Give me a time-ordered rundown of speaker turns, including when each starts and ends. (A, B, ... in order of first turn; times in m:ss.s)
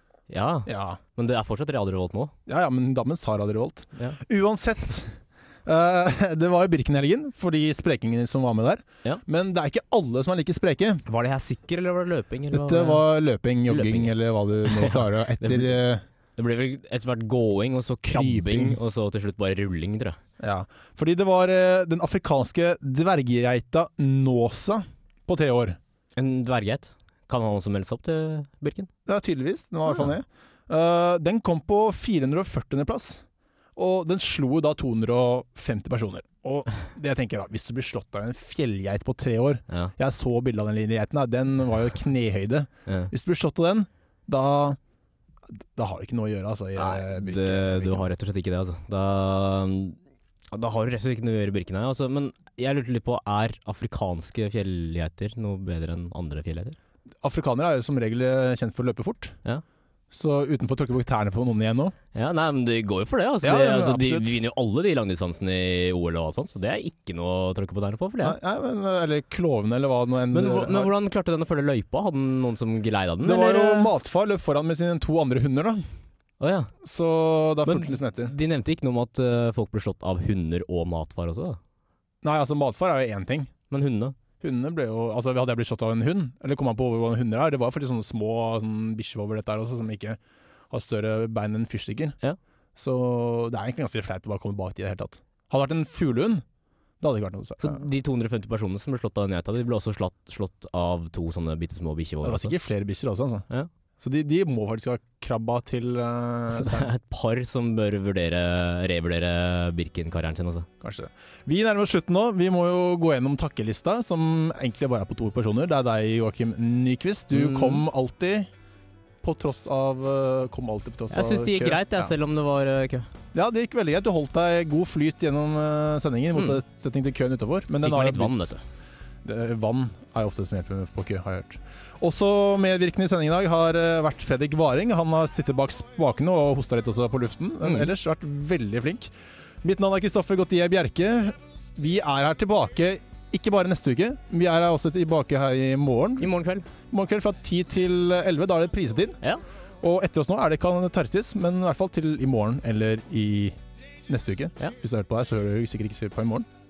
0:00.3-0:02.3 A
0:00.7-0:01.0 B
0:02.5-0:11.0 B
0:11.0-0:13.1 A
0:12.5-0:16.0 B
0:13.7-0:14.1 A
0:14.6-0:15.8 A
0:16.4-0:20.2 A
0:18.1-0:18.8 B
0:20.4-0:25.8 B
0:26.2-0:28.9 A
0:29.1-0:33.2 B
0:33.8-0:44.8 B
0:39.7-0:39.9 A
0:45.6-0:48.1 B
0:46.8-0:50.0 A
0:50.5-0:56.8 A
0:57.2-0:59.4 B
1:00.1-1:01.9 B
1:02.1-1:08.4 A
1:03.4-1:04.4 B
1:08.2-1:10.9 B
1:10.3-1:13.9 A
1:13.2-1:15.8 B
1:16.4-1:16.7 A
1:16.8-1:18.3 B
1:17.6-1:21.6 A
1:22.2-1:23.5 B
1:23.7-1:24.2 A
1:24.4-1:30.2 B
1:30.7-1:32.1 B
1:32.8-1:36.4 B
1:37.0-1:37.8 B
1:37.6-1:42.5 A
1:42.2-1:43.4 B
1:44.0-1:46.9 B
1:46.5-1:50.7 A
1:50.8-1:58.5 B
1:57.3-1:57.8 A
1:59.2-2:02.1 B
2:01.1-2:03.1 A
2:03.3-2:08.4 B
2:07.8-2:08.6 A
2:09.2-2:26.3 B
2:17.6-2:17.9 A
2:26.2-2:26.7 A
2:26.9-2:29.2 B
2:29.8-2:33.6 B
2:34.1-2:36.4 B